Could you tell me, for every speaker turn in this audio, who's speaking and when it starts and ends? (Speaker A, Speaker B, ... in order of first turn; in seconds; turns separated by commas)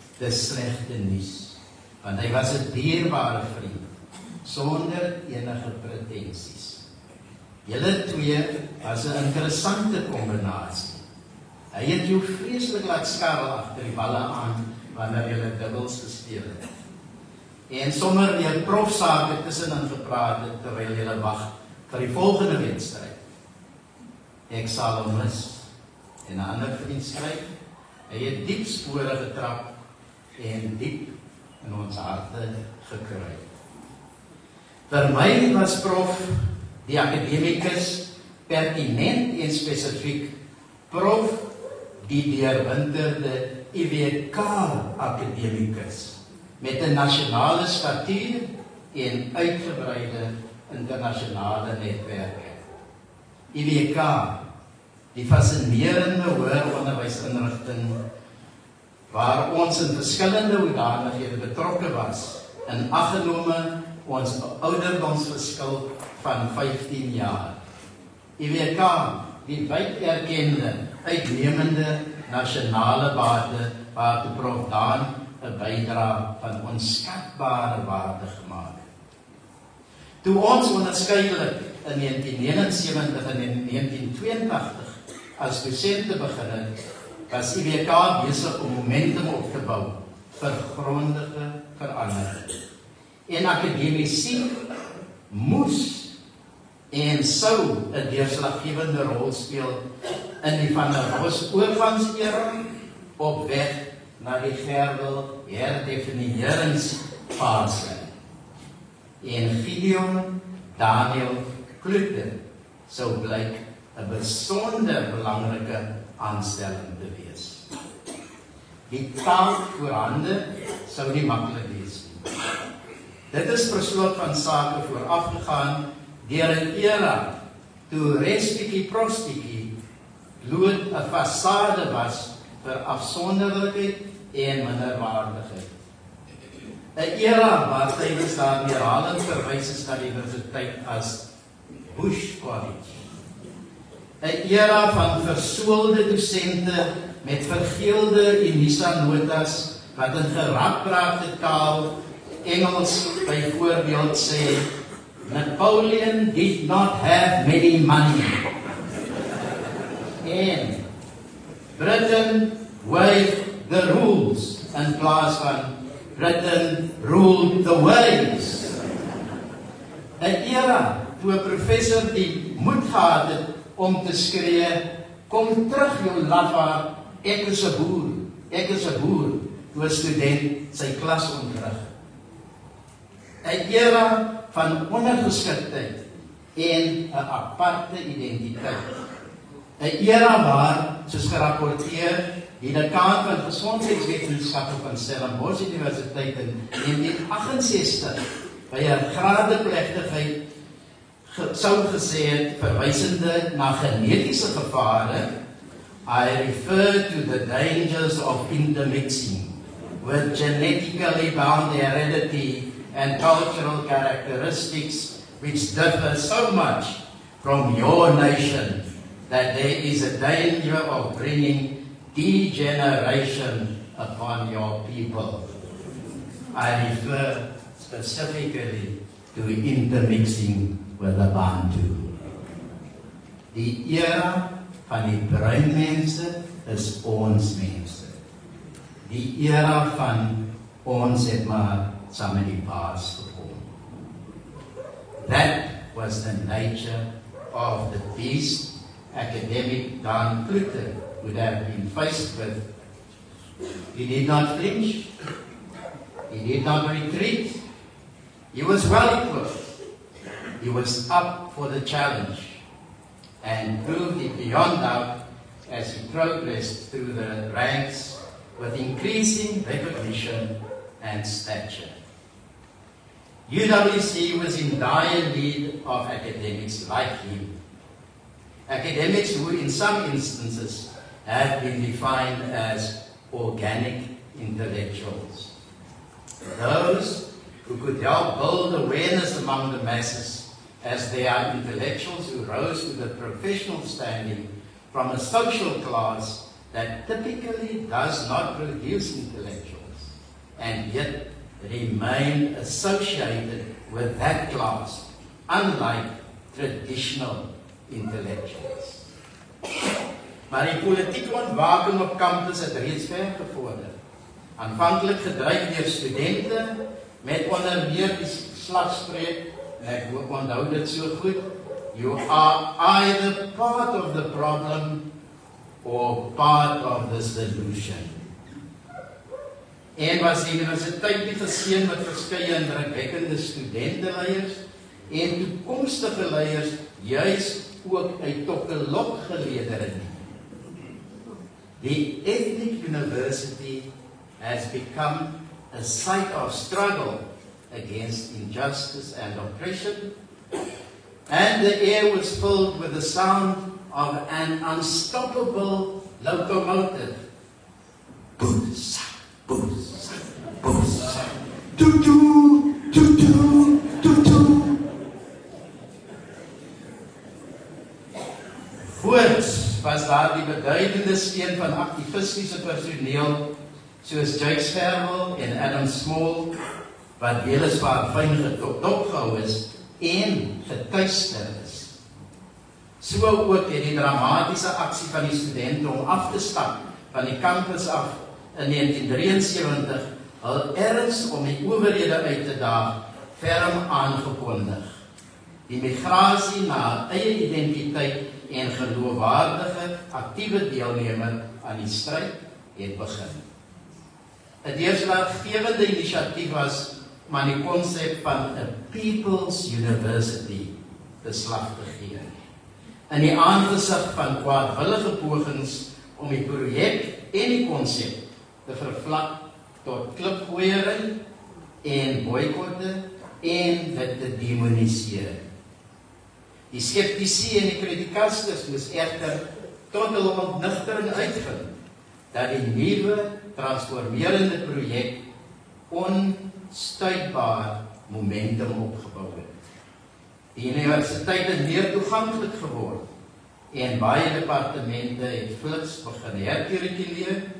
Speaker A: 0.2-3.8, Speaker A: 4.4-6.8, Speaker A: 7.7-11.0, Speaker A: 11.7-16.6, Speaker A: 17.7-23.2, Speaker A: 24.5-25.7, Speaker A: 26.2-27.5, Speaker A: 28.1-29.7, Speaker A: 30.4-33.4, Speaker A: 34.9-40.3, Speaker A: 40.9-41.4, Speaker A: 42.0-52.6, Speaker A: 53.5-54.4, Speaker A: 55.1-58.0, Speaker A: 59.1-67.6, Speaker A: 68.4-78.8, Speaker A: 80.2-86.7, Speaker A: 87.3-92.5, Speaker A: 93.3-94.5, Speaker A: 95.3-96.1, Speaker A: 96.9-99.8, Speaker A: 100.4-102.6, Speaker A: 103.2-108.1, Speaker A: 109.2-112.4, Speaker A: 112.9-117.7, Speaker A: 118.9-122.3, Speaker A: 123.3-127.3, Speaker A: 127.9-129.7, Speaker A: 130.4-135.7, Speaker A: 137.0-141.2, Speaker A: 141.9-143.0, Speaker A: 144.2-151.9, Speaker A: 152.4-154.7, Speaker A: 155.2-158.4, Speaker A: 160.2-160.8, Speaker A: 161.8-168.8, Speaker A: 170.2-181.9, Speaker A: 183.4-186.0, Speaker A: 186.6-188.9, Speaker A: 189.8-198.2, Speaker A: 198.7-200.3, Speaker A: 201.3-205.3, Speaker A: 206.1-225.5, Speaker A: 226.5-232.1, Speaker A: 233.5-238.2, Speaker A: 239.0-243.7, Speaker A: 245.2-252.7, Speaker A: 253.9-255.1, Speaker A: 256.3-257.6, Speaker A: 258.5-259.6, Speaker A: 260.6-262.6, Speaker A: 263.4-265.2, Speaker A: 265.7-271.9, Speaker A: 273.5-277.5, Speaker A: 278.7-285.5, Speaker A: 286.5-309.1, Speaker A: 310.5-313.9, Speaker A: 314.6-325.0, Speaker A: 325.8-328.2, Speaker A: 330.0-340.2, Speaker A: 341.8-343.9, Speaker A: 344.4-350.1, Speaker A: 351.3-357.2, Speaker A: 358.4-364.8, Speaker A: 368.8-373.4, Speaker A: 374.0-376.5, Speaker A: 377.2-381.9, Speaker A: 383.0-394.9, Speaker A: 395.7-403.4, Speaker A: 404.6-412.3, Speaker A: 413.1-421.1, Speaker A: 421.8-425.4, Speaker A: 426.7-431.7, Speaker A: 432.3-435.2, Speaker A: 435.9-439.5, Speaker A: 440.6-443.0, Speaker A: 443.7-447.4